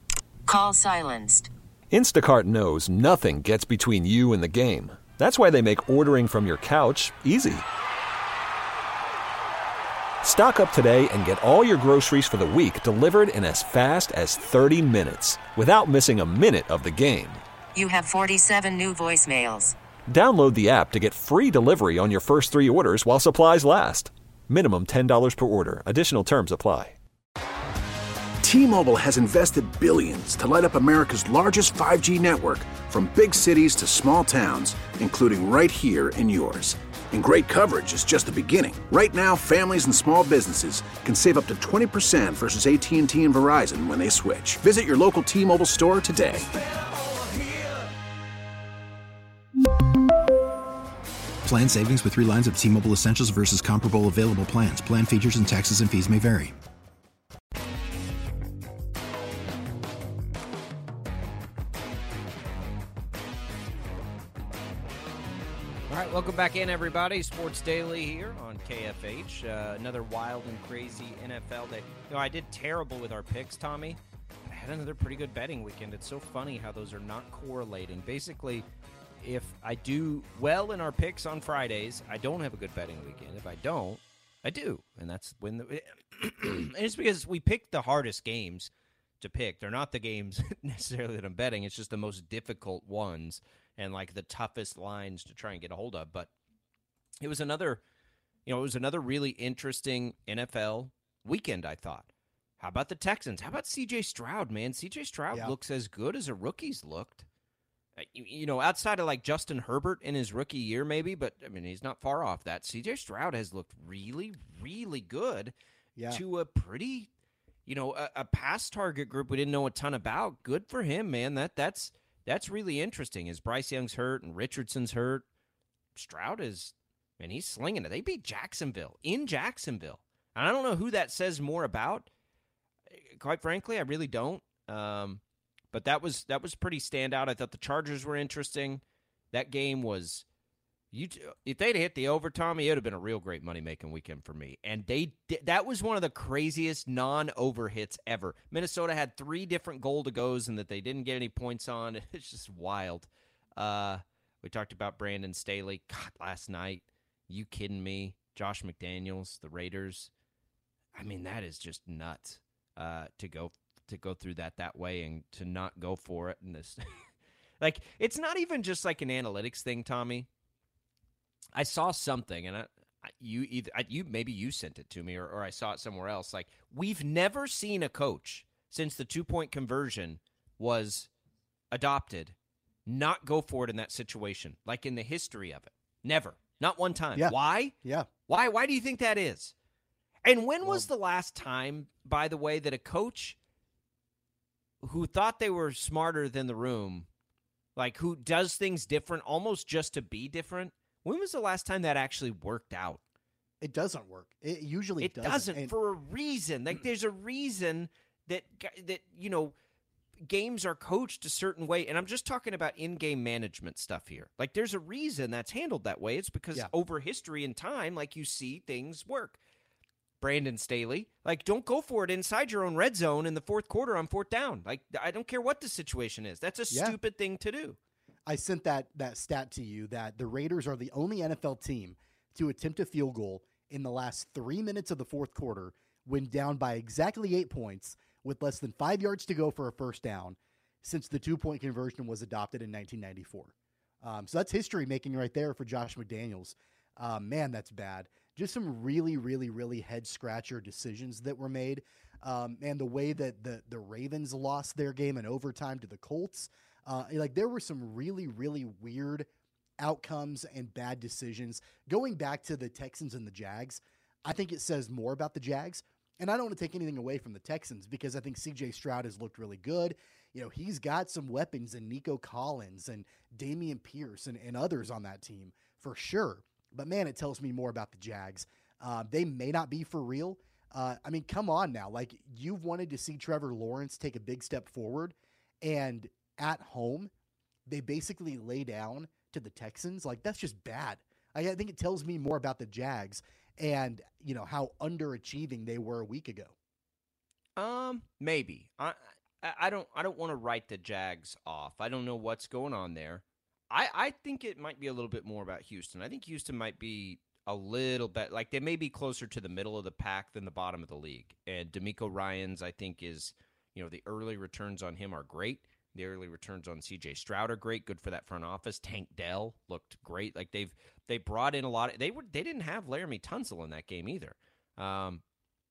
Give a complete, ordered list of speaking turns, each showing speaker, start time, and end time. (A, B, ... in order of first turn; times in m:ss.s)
0:00.5-0:01.5 A
0:01.9-0:07.6 B
0:10.2-0:17.4 B
0:17.7-0:19.7 A
0:20.1-0:26.9 B
0:28.4-0:46.4 C
0:51.4-0:56.6 D
1:05.9-1:18.6 E
1:19.2-1:36.3 E
1:37.2-1:37.8 E
1:38.4-1:47.3 E
1:48.0-1:55.5 E
1:56.0-1:56.2 F
1:56.1-1:57.1 E
1:57.6-2:05.2 E
2:05.9-2:12.1 E
2:12.9-2:15.2 E
2:15.7-2:20.2 E
2:20.9-2:40.1 E
2:40.9-2:50.3 E
2:51.5-3:01.1 E
3:01.7-3:07.7 E
3:07.2-3:08.1 F
3:08.3-3:09.5 E
3:10.2-3:13.4 E
3:14.8-3:17.1 E
3:17.8-3:23.0 E
3:23.6-3:25.7 F
3:25.0-3:29.5 E
3:30.2-3:39.4 E
3:40.2-3:47.8 E
3:46.7-3:47.0 F
3:48.2-4:19.3 F
4:19.8-4:47.1 F
4:47.7-4:56.5 F
4:57.6-5:25.2 E